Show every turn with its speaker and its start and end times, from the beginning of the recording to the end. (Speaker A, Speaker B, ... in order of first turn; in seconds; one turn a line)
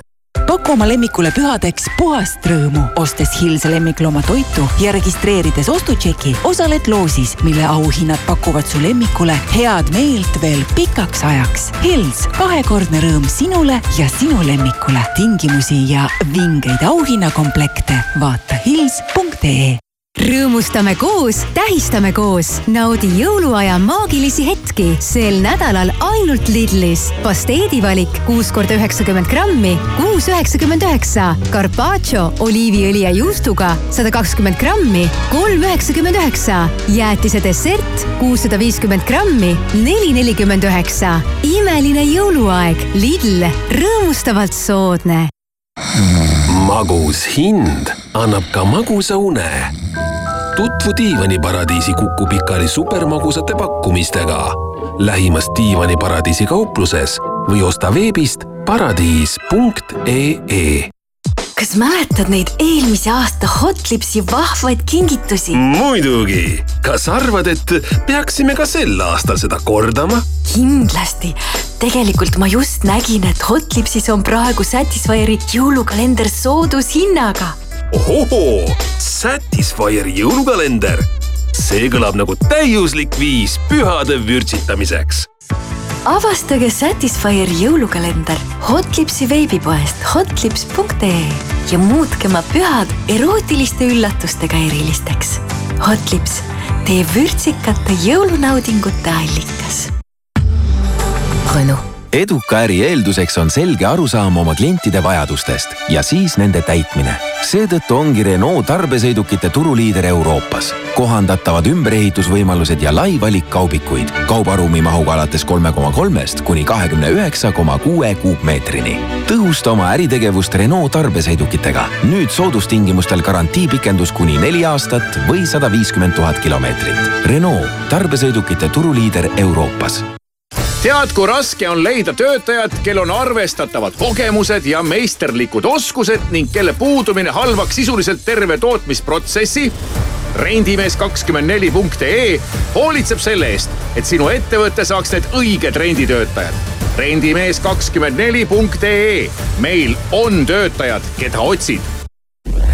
Speaker A: 0.5-19.8
Speaker B: 20.2-45.3
Speaker C: 46.5-49.7
Speaker C: 50.5-60.9
Speaker D: 61.6-65.6
Speaker C: 65.6-70.2
Speaker D: 70.5-77.6
Speaker C: 77.9-85.2
Speaker D: 86.0-99.9
Speaker D: 101.5-101.8
Speaker E: 102.1-130.0
Speaker F: 130.8-139.7
Speaker F: 140.3-151.8